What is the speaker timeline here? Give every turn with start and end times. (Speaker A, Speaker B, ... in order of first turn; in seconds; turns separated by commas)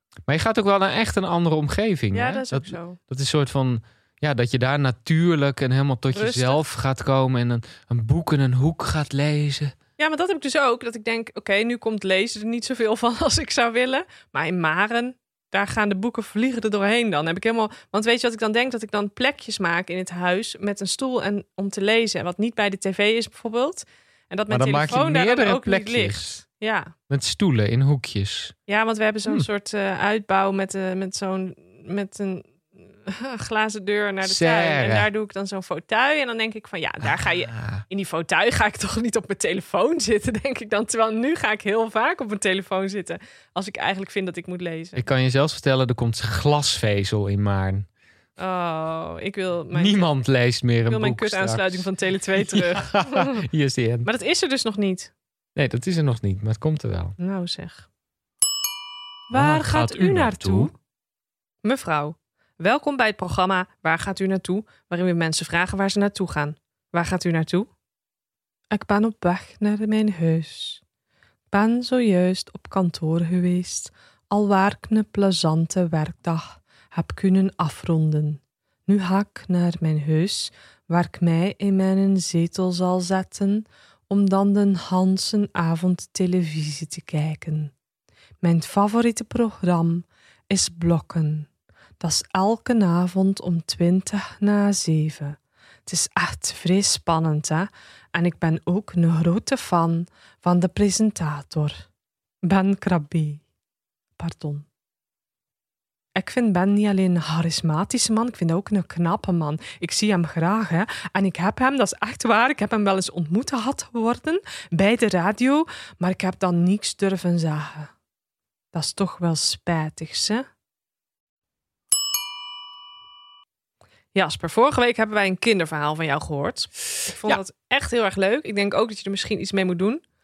Speaker A: 0.3-9.7, Speaker B: 2.1-3.0, Speaker B: 6.1-6.6, Speaker B: 10.0-26.9, Speaker A: 24.5-26.4, Speaker A: 27.1-28.6, Speaker B: 28.7-45.1, Speaker A: 34.2-35.1, Speaker A: 37.0-37.8, Speaker A: 45.0-47.9, Speaker B: 48.4-50.1, Speaker A: 49.7-54.1, Speaker B: 50.9-53.5, Speaker B: 54.0-55.1, Speaker A: 55.6-57.2, Speaker B: 57.2-57.9, Speaker B: 59.3-60.7, Speaker A: 59.3-60.7, Speaker B: 61.6-67.7, Speaker B: 68.7-70.8, Speaker B: 71.5-87.7, Speaker B: 88.4-91.5, Speaker B: 92.0-101.9, Speaker B: 102.4-103.4, Speaker B: 104.2-104.7, Speaker B: 106.2-117.9, Speaker B: 118.7-120.5, Speaker B: 124.1-130.0